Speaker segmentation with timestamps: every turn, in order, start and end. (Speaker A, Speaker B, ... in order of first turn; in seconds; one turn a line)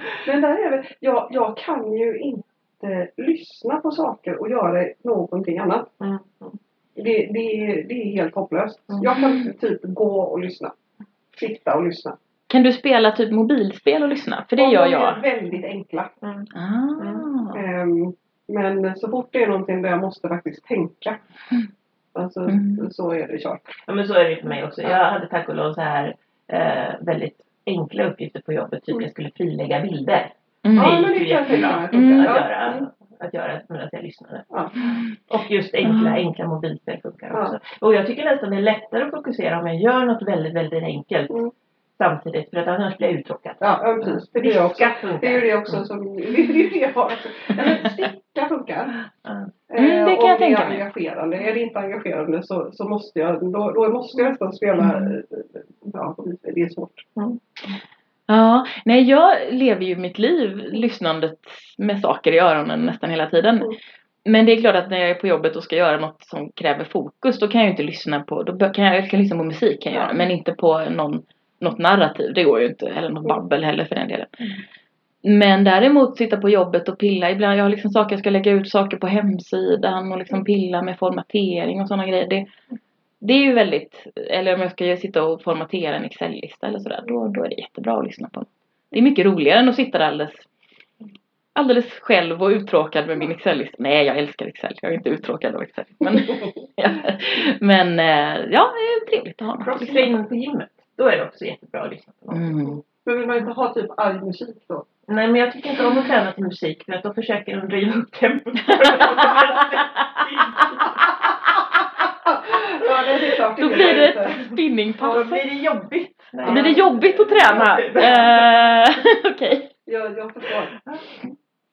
Speaker A: 0.2-5.9
Speaker B: 6.0-6.6
Speaker A: 7.0-10.7
Speaker C: 9.1-9.5
Speaker A: 11.3-12.2
Speaker C: 12.5-15.2
Speaker A: 14.6-16.1
Speaker B: 16.2-17.3
Speaker C: 16.5-17.6
Speaker A: 17.5-21.2
Speaker A: 22.1-23.8
Speaker C: 22.5-22.9
Speaker B: 23.9-45.8
Speaker C: 30.6-31.1
Speaker A: 30.7-32.9
Speaker C: 31.9-32.3
Speaker A: 34.5-34.7
Speaker C: 35.8-36.2
Speaker A: 43.6-49.0
Speaker B: 49.2-49.5
Speaker A: 49.7-57.0
Speaker C: 49.8-50.8
Speaker C: 54.8-55.1
Speaker C: 58.3-63.7
Speaker C: 64.2-74.5
Speaker A: 69.9-70.2
Speaker C: 75.2-82.5
Speaker C: 83.2-90.5
Speaker C: 91.5-100.1
Speaker B: 99.6-102.7
Speaker C: 102.3-102.8
Speaker A: 103.0-104.8
Speaker B: 105.1-111.2
Speaker C: 108.7-109.4
Speaker A: 112.2-114.5
Speaker C: 113.6-115.4
Speaker B: 115.0-118.8
Speaker A: 116.4-118.2
Speaker C: 116.4-119.7
Speaker A: 119.9-120.8